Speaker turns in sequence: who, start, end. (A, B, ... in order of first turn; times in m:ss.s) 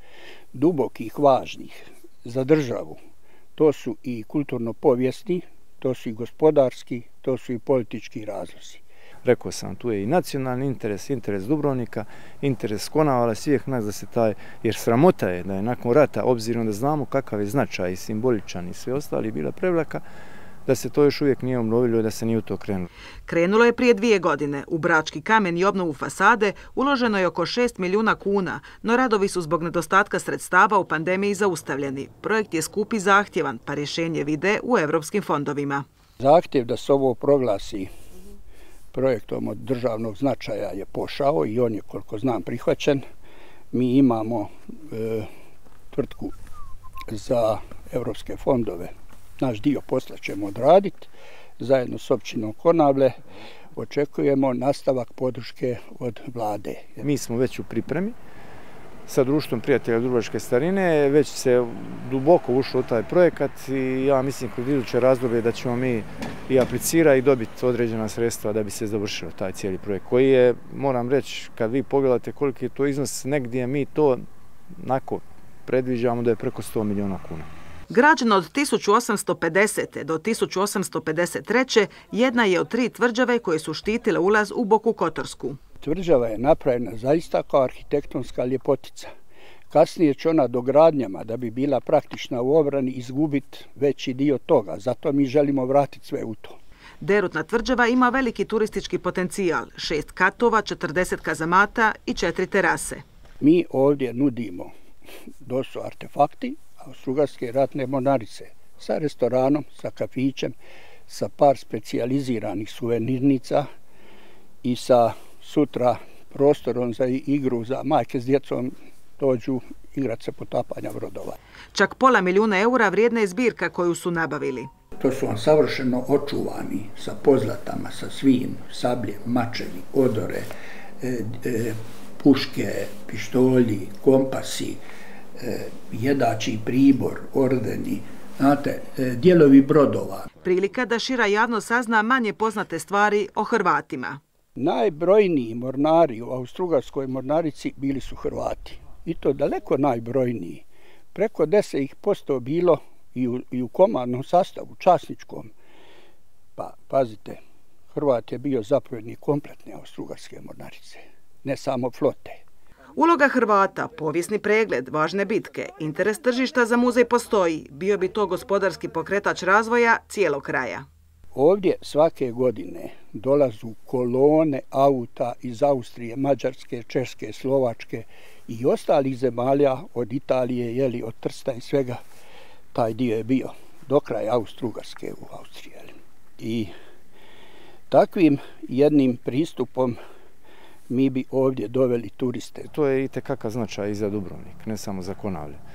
0:00.5-0:03.0 A
0:03.6-0:08.8 A
0:09.2-0:20.0 B
0:20.6-0:22.9 B
0:23.3-0:35.8 C
0:36.2-0:37.9 A
0:38.9-0:43.0 A
0:43.7-0:45.3 A
0:45.9-0:46.3 A
0:47.1-0:53.2 A
0:53.8-0:57.0 A
0:57.0-0:58.2 B
0:59.1-1:17.5 B
1:17.9-1:25.6 C
1:25.8-1:29.1 A
1:29.7-1:36.6 A
1:37.0-1:43.0 C
1:43.4-1:44.7 A
1:45.4-1:53.7 A
1:54.6-2:01.3 A
2:01.7-2:04.7 C
2:05.0-2:10.5 A
2:11.0-2:14.8 A
2:15.4-2:20.2 A
2:20.4-2:24.2 C
2:24.6-2:35.5 A
2:36.6-2:37.4 A
2:37.9-2:42.4 A
2:43.0-2:50.8 C
2:51.3-3:02.0 A
3:02.7-3:06.7 A
3:07.9-3:10.0 A
3:10.9-3:12.7 A
3:12.7-3:15.6 B